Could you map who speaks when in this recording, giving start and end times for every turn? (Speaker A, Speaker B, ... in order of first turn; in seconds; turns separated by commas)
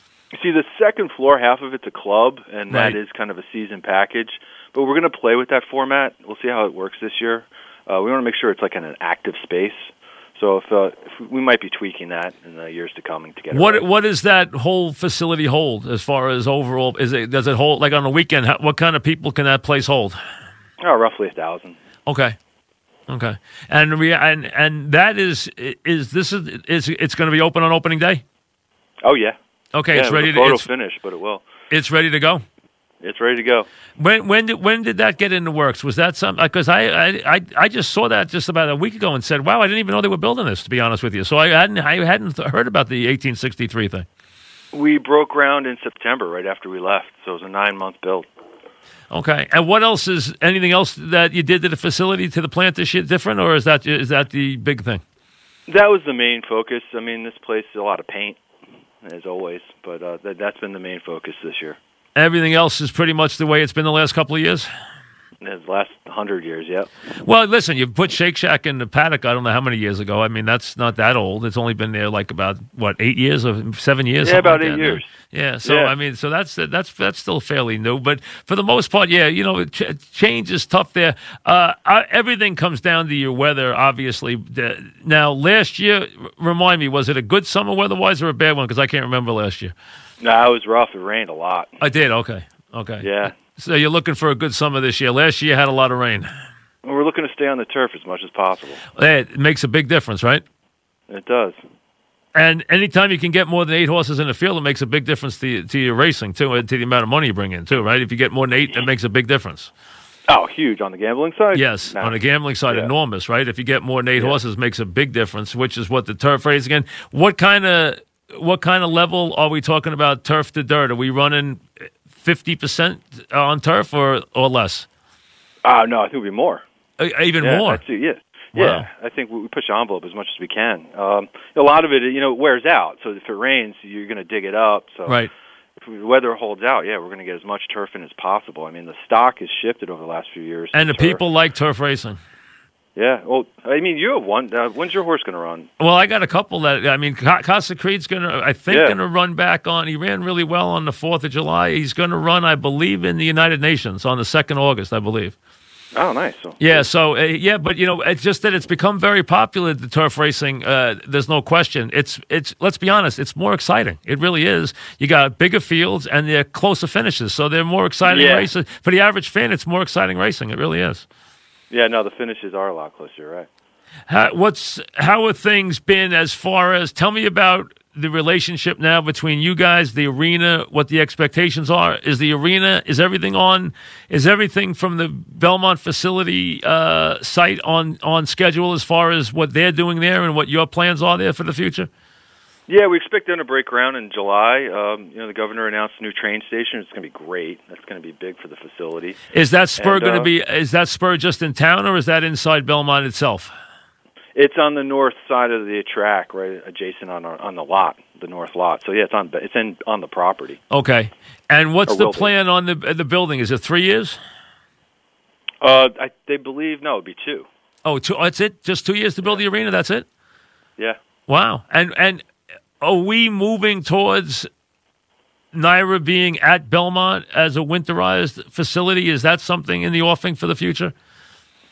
Speaker A: 0.3-13.8, Speaker B: 2.7-3.0, Speaker B: 13.5-20.2, Speaker A: 20.8-21.8, Speaker B: 22.1-22.4, Speaker B: 23.1-28.2, Speaker A: 29.0-29.4, Speaker B: 29.7-30.7, Speaker A: 29.9-31.4, Speaker B: 31.7-32.4, Speaker A: 33.0-33.7, Speaker B: 34.0-44.1, Speaker A: 44.7-48.3, Speaker B: 49.1-55.0, Speaker A: 55.7-58.4, Speaker A: 59.0-61.8, Speaker B: 62.1-64.7, Speaker A: 65.4-66.9, Speaker B: 67.2-89.7, Speaker A: 74.2-75.1, Speaker A: 75.6-75.9, Speaker A: 90.2-91.8, Speaker B: 91.8-96.3, Speaker A: 93.0-93.3, Speaker A: 96.8-98.8, Speaker B: 99.0-100.4, Speaker A: 101.1-101.6, Speaker B: 102.3-109.7, Speaker A: 110.3-112.9, Speaker B: 111.5-121.6, Speaker B: 122.2-124.8, Speaker A: 125.6-126.6, Speaker B: 127.0-127.8, Speaker A: 127.4-135.2, Speaker B: 128.6-128.9, Speaker A: 135.8-141.2, Speaker B: 140.7-142.2, Speaker A: 142.9-145.7, Speaker B: 145.8-155.3, Speaker A: 148.7-149.0, Speaker A: 155.9-156.9, Speaker B: 156.6-171.1, Speaker A: 168.0-168.5, Speaker A: 171.7-173.5, Speaker B: 174.1-191.9, Speaker A: 192.7-199.2, Speaker B: 199.3-203.5, Speaker A: 199.8-200.3, Speaker A: 204.3-210.6, Speaker B: 210.7-214.2, Speaker A: 211.9-212.3, Speaker A: 215.6-217.5, Speaker B: 217.8-220.0, Speaker B: 221.3-222.2, Speaker B: 222.8-224.5, Speaker B: 225.5-230.9